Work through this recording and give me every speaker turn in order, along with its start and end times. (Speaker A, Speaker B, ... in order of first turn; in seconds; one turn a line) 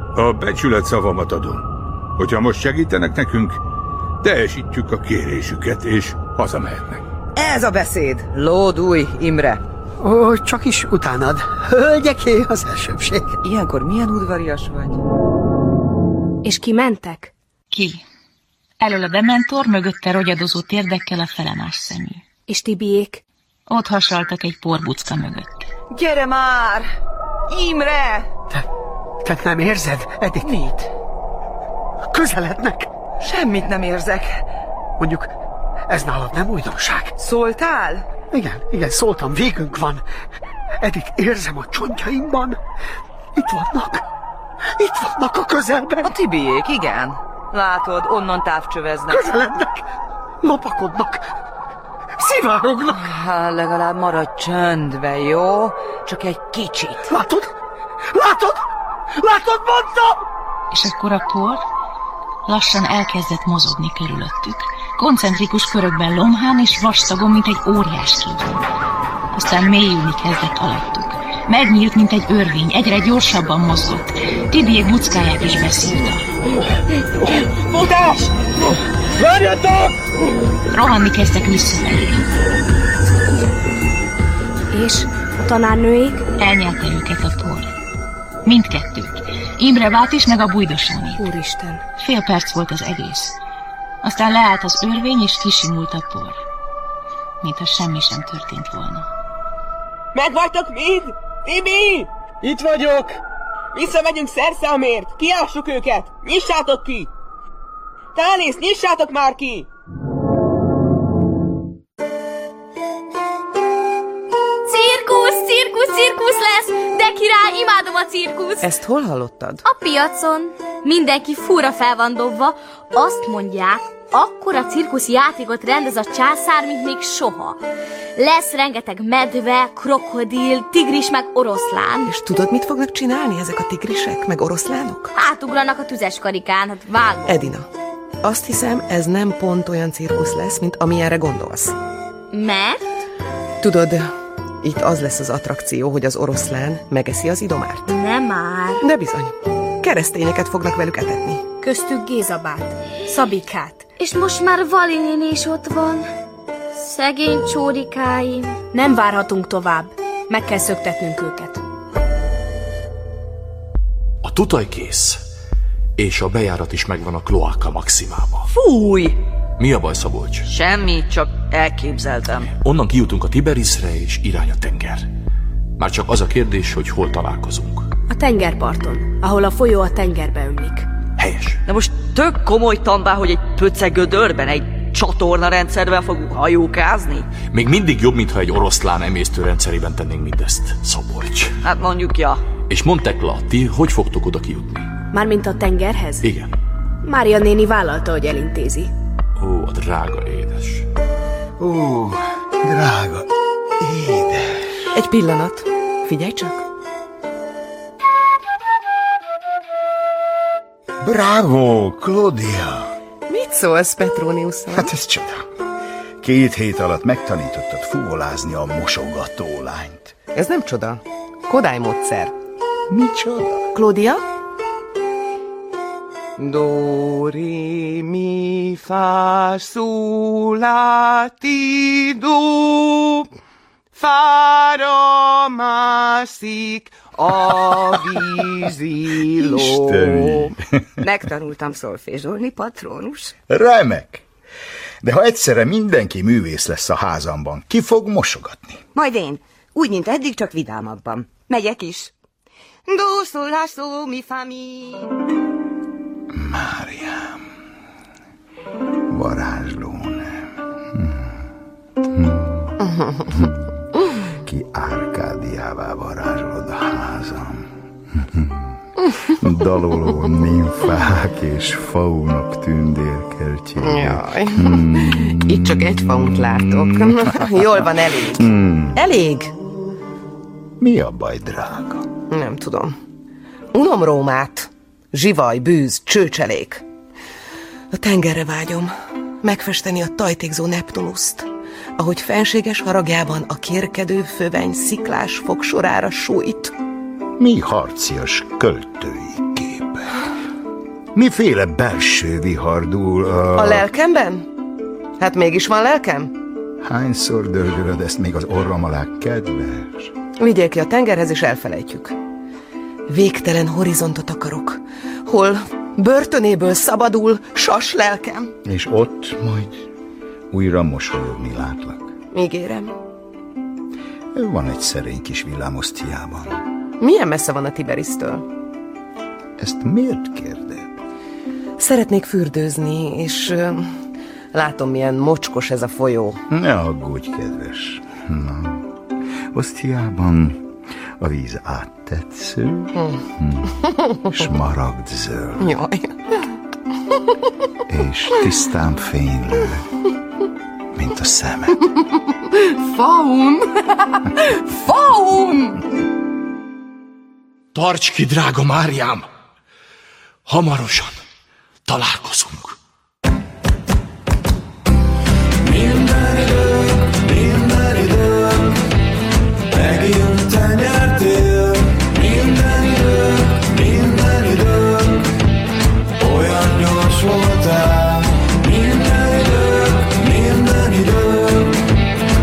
Speaker A: 0.1-1.6
Speaker A: 2.2-3.6
Speaker A: 4.2-7.0
Speaker B: 7.3-9.6
Speaker C: 10.0-13.4
Speaker B: 13.4-15.0
Speaker D: 16.4-17.3
Speaker E: 17.7-18.0
Speaker E: 18.8-22.2
Speaker D: 22.5-23.2
Speaker E: 23.7-25.6
Speaker B: 25.9-26.9
Speaker B: 27.5-28.3
Speaker C: 29.2-30.5
Speaker B: 30.4-30.9
Speaker C: 32.1-32.9
Speaker B: 33.2-34.4
Speaker C: 35.0-35.3
Speaker C: 35.9-37.1
Speaker B: 37.2-38.0
Speaker C: 38.3-40.0
Speaker C: 40.8-42.6
Speaker C: 43.3-44.0
Speaker C: 44.8-46.1
Speaker B: 46.0-49.3
Speaker C: 49.1-49.8
Speaker C: 50.4-51.2
Speaker C: 52.2-53.0
Speaker B: 52.9-57.1
Speaker C: 57.1-57.5
Speaker C: 58.1-58.6
Speaker C: 59.2-60.2
Speaker E: 60.7-61.6
Speaker E: 62.5-68.5
Speaker E: 69.3-76.3
Speaker F: 77.7-78.3
Speaker E: 80.7-82.2
Speaker D: 84.7-86.2
Speaker E: 86.4-87.7
Speaker E: 88.4-91.3
Speaker D: 91.2-91.8
Speaker E: 92.0-93.4
Speaker E: 94.0-96.4
Speaker E: 97.4-99.1
Speaker F: 100.1-102.1
Speaker F: 103.7-107.1
Speaker F: 108.1-109.7
Speaker G: 114.7-118.7
Speaker H: 118.6-119.6
Speaker G: 119.6-127.6
Speaker G: 128.2-132.1
Speaker H: 132.1-135.1
Speaker G: 135.1-137.4
Speaker H: 137.2-137.7
Speaker H: 138.2-141.7
Speaker G: 142.3-142.8
Speaker H: 143.6-147.9
Speaker G: 147.9-148.8
Speaker H: 148.8-151.4
Speaker D: 151.6-153.8
Speaker G: 154.0-156.1
Speaker G: 156.7-158.6
Speaker D: 158.7-161.6
Speaker I: 164.2-165.2
Speaker I: 166.0-168.5
Speaker I: 169.6-170.4
Speaker J: 170.4-172.5
Speaker I: 172.6-175.1
Speaker I: 175.8-177.9
Speaker D: 178.1-180.9
Speaker I: 181.2-181.6
Speaker J: 181.7-187.3
Speaker I: 187.5-191.5
Speaker J: 191.6-192.4
Speaker I: 192.7-194.9
Speaker D: 195.1-196.2
Speaker I: 196.2-196.5
Speaker D: 197.0-198.9
Speaker I: 199.4-200.8
Speaker K: 201.6-203.3
Speaker K: 203.8-204.5
Speaker H: 204.9-206.6
Speaker K: 211.0-212.9
Speaker H: 213.3-214.9
Speaker K: 214.8-215.4
Speaker K: 216.2-220.1
Speaker H: 220.3-222.3
Speaker K: 222.9-223.6
Speaker H: 223.7-224.2
Speaker H: 226.4-233.2
Speaker H: 234.0-237.7
Speaker H: 239.0-240.0
Speaker K: 239.4-240.6
Speaker K: 243.5-244.2
Speaker K: 245.0-248.8
Speaker K: 256.3-257.4
Speaker K: 259.1-261.3
Speaker K: 262.1-262.8
Speaker K: 263.3-263.6
Speaker K: 264.4-268.7
Speaker K: 269.4-277.7
Speaker H: 273.8-279.5
Speaker K: 278.4-279.0
Speaker K: 280.8-282.1
Speaker H: 282.3-282.9
Speaker H: 283.7-286.8
Speaker H: 287.9-288.9
Speaker H: 289.4-296.7
Speaker K: 297.4-300.0
Speaker K: 301.1-303.8
Speaker H: 303.6-304.4
Speaker H: 305.2-306.3
Speaker K: 306.8-310.1
Speaker H: 310.4-312.1
Speaker H: 313.1-318.5
Speaker K: 318.6-319.8
Speaker K: 320.5-322.1
Speaker H: 322.3-322.9
Speaker K: 324.3-326.6
Speaker H: 327.0-328.4
Speaker K: 329.6-330.9
Speaker H: 331.8-333.9
Speaker H: 334.5-336.4
Speaker K: 336.5-338.9
Speaker K: 339.5-343.7
Speaker K: 344.3-345.7
Speaker H: 345.6-346.1
Speaker K: 347.9-349.8
Speaker K: 350.9-351.8
Speaker H: 353.0-353.6
Speaker I: 357.7-359.2
Speaker I: 360.5-361.1
Speaker I: 361.9-362.7
Speaker L: 365.6-368.8
Speaker L: 369.7-375.3
Speaker L: 376.2-381.8